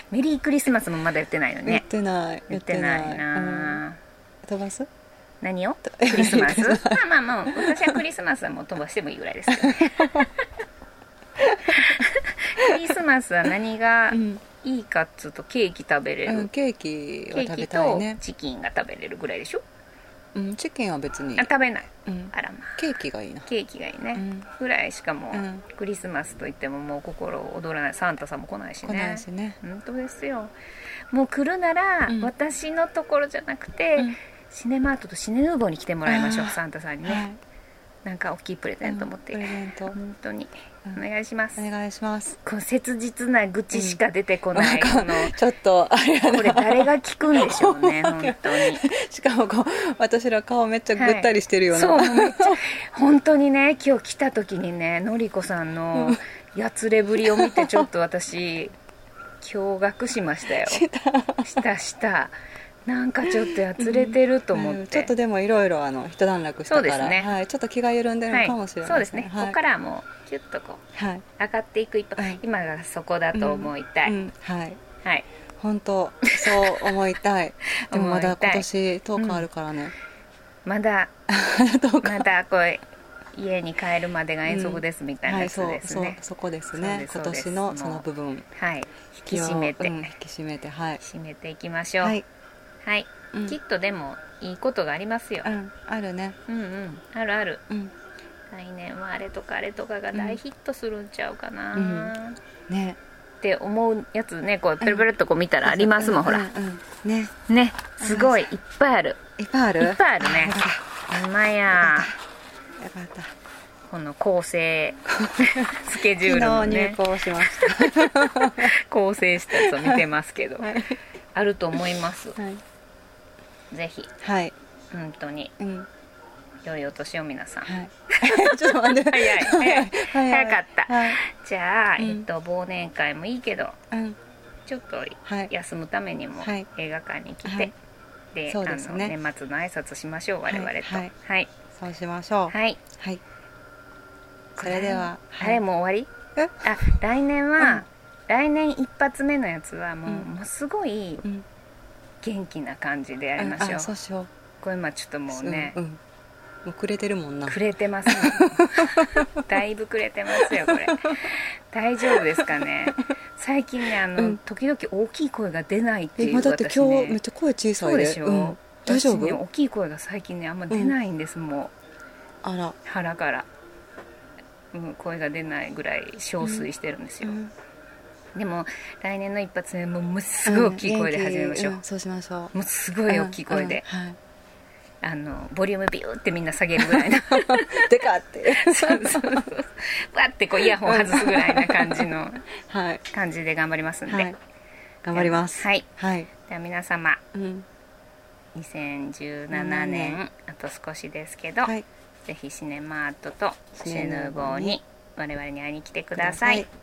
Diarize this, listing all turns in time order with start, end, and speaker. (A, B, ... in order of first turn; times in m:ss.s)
0:00.1-0:01.8 A
0:01.7-0:03.8 B
0:02.5-0:04.0 A
0:04.4-0:04.9 B
0:05.4-0:10.3 A
0:05.9-0:08.0 B
0:09.5-0:10.3 B
0:11.4-0:12.0 B
0:11.7-0:16.5 A
0:14.1-0:14.4 B
0:16.3-0:18.2 B
0:17.3-0:19.6 A
0:20.4-0:21.5 B
0:21.4-0:22.8 A
0:22.1-0:23.5 B
0:23.5-0:30.5 A
0:24.2-0:24.5 B
0:25.3-0:25.6 B
0:28.8-0:29.6 B
0:31.1-0:37.3 A
0:36.1-0:37.4 B
0:38.0-0:41.6 A
0:38.8-0:40.0 B
0:41.6-0:42.4 B
0:42.4-0:45.4 A
0:43.7-0:44.0 B
0:44.6-0:52.6 B
0:46.2-0:48.8 A
0:51.0-0:58.7 A
0:55.9-0:56.2 B
0:57.2-0:57.9 B
0:59.4-1:00.8 A
1:00.5-1:01.6 B
1:01.4-1:02.3 A
1:02.9-1:05.1 A
1:03.2-1:09.6 B
1:06.7-1:07.3 A
1:08.3-1:10.8 A
1:11.0-1:11.2 B
1:11.4-1:14.2 A
1:12.2-1:12.4 B
1:13.3-1:14.8 B
1:15.6-1:19.9 B
1:16.3-1:16.9 A
1:17.8-1:18.7 A
1:19.2-1:19.5 A
1:20.6-1:21.1 A
1:21.3-1:22.3 B
1:22.0-1:22.8 A
1:23.3-1:26.2 A
1:24.5-1:28.5 B
1:26.7-1:30.1 A
1:29.3-1:31.0 B
1:31.0-1:32.2 A
1:32.8-1:35.5 A
1:33.3-1:33.6 B
1:35.4-1:36.4 B
1:36.5-1:37.6 A
1:38.5-1:42.4 A
1:40.1-1:40.4 B
1:41.7-1:42.1 B
1:42.7-1:43.0 B
1:43.4-1:46.5 A
1:44.8-1:45.1 B
1:45.6-1:47.3 B
1:47.5-1:49.2 A
1:48.0-1:48.5 B
1:49.4-1:50.9 B
1:49.8-1:50.6 A
1:51.1-1:52.1 A
1:51.7-1:52.2 B
1:52.8-1:53.3 B
1:53.9-2:00.7 A
1:55.2-1:58.7 B
1:59.6-2:00.0 B
2:00.6-2:01.0 B
2:01.4-2:02.4 A
2:02.4-2:02.6 B
2:03.7-2:04.1 A
2:04.2-2:04.6 B
2:04.9-2:05.5 A
2:05.6-2:05.9 B
2:06.6-2:07.7 A
2:07.7-2:11.2 B
2:08.2-2:13.8 A
2:12.0-2:12.3 B
2:13.9-2:14.2 B
2:14.7-2:17.7 A
2:15.3-2:15.5 B
2:17.4-2:17.7 B
2:18.3-2:21.5 A
2:18.5-2:19.2 B
2:20.5-2:21.1 B
2:21.8-2:23.2 B
2:22.5-2:22.8 A
2:24.6-2:26.1 A
2:24.6-2:25.6 B
2:26.4-2:26.8 B
2:26.6-2:31.2 A
2:27.6-2:27.8 B
2:32.2-2:33.9 A
2:33.4-2:34.3 B
2:34.6-2:35.8 A
2:35.3-2:36.0 B
2:36.6-2:39.4 B
2:37.5-2:47.2 A
2:40.5-2:41.1 B
2:42.1-2:43.0 B
2:46.2-2:49.4 B
2:47.8-2:51.7 A
2:50.7-2:51.0 B
2:52.4-2:52.8 B
2:52.8-2:53.5 A
2:54.7-2:57.4 A
2:56.4-2:56.7 B
2:57.2-2:57.5 B
2:58.4-3:01.8 A
3:00.5-3:02.6 B
3:02.5-3:03.8 A
3:03.1-3:04.2 B
3:05.0-3:07.9 A
3:06.8-3:09.5 B
3:08.5-3:12.4 A
3:10.6-3:12.1 B
3:12.6-3:13.0 B
3:13.1-3:14.3 A
3:14.1-3:14.4 B
3:15.0-3:16.3 B
3:15.1-3:15.9 A
3:16.5-3:17.2 A
3:17.3-3:17.7 B
3:18.6-3:26.6 A
3:19.5-3:20.2 B
3:23.8-3:24.8 B
3:26.2-3:26.7 B